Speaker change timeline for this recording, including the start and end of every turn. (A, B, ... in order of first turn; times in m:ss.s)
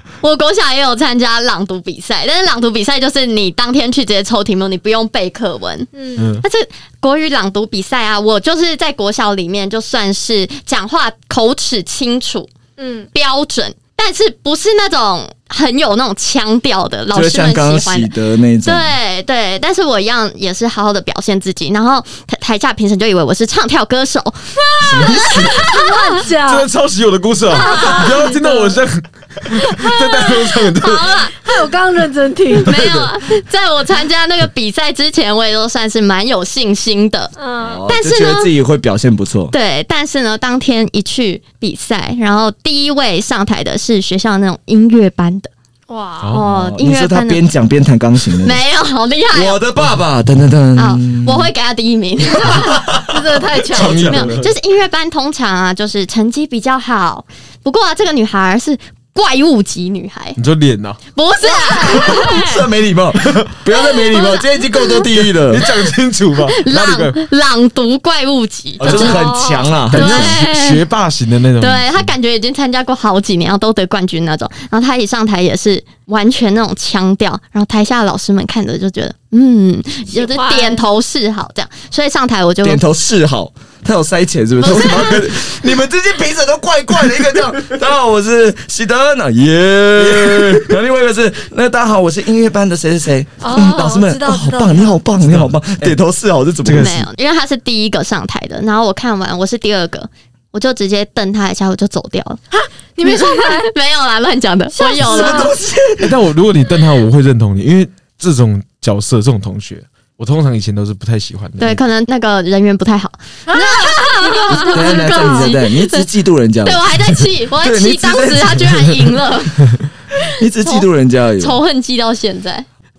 0:00.2-0:05.9 A
0:05.9-0:06.4 B
0:06.2-0:06.4 C
0:06.4-0:12.5 A
0:12.8-0:13.1 B
0:13.1-0:18.1 A
0:17.1-0:18.9 D
0:18.6-0:26.2 A
0:24.7-0:26.7 B
0:24.8-0:25.7 D
0:26.4-0:31.2 C
0:27.5-0:28.8 B
0:27.6-0:28.1 A
0:29.5-0:30.7 B
0:30.8-0:31.4 A
0:31.3-0:32.8 B
0:32.6-0:37.3 A
0:32.6-0:33.1 C
0:37.4-0:37.8 B
0:37.6-0:39.5 D
0:37.9-0:38.5 A
0:39.5-0:45.5 A
0:45.9-0:46.4 B
0:46.3-0:47.4 A
0:46.4-0:48.6 D
0:48.4-0:49.6 A
0:49.3-0:51.5 D
0:50.8-0:52.8 A
0:52.4-0:54.3 B
0:52.5-0:53.3 D
0:53.6-0:54.5 C
0:53.8-1:00.4 A
1:00.4-1:01.0 C
1:01.1-1:02.3 A
1:01.4-1:02.6 B
1:02.2-1:05.7 D
1:04.1-1:04.4 A
1:05.1-1:07.2 C
1:06.5-1:09.3 A
1:08.8-1:10.4 D
1:08.8-1:10.3 B
1:09.9-1:12.1 C
1:09.9-1:10.8 A
1:11.6-1:22.8 A
1:20.1-1:20.8 B
1:22.6-1:37.0 D
1:24.6-1:25.3 B
1:30.0-1:30.8 C
1:33.4-1:34.9 B
1:35.2-1:35.9 C
1:36.6-1:37.0 C
1:36.7-1:42.4 A
1:42.5-1:43.7 B
1:43.0-1:45.5 A
1:44.8-1:45.5 B
1:45.0-1:46.2 D
1:46.0-1:51.8 C
1:51.6-1:56.0 A
1:53.5-1:55.5 B
1:54.7-1:56.9 D
1:56.6-1:59.7 A
1:57.6-1:59.2 D
2:00.3-2:01.6 D
2:01.4-2:02.7 A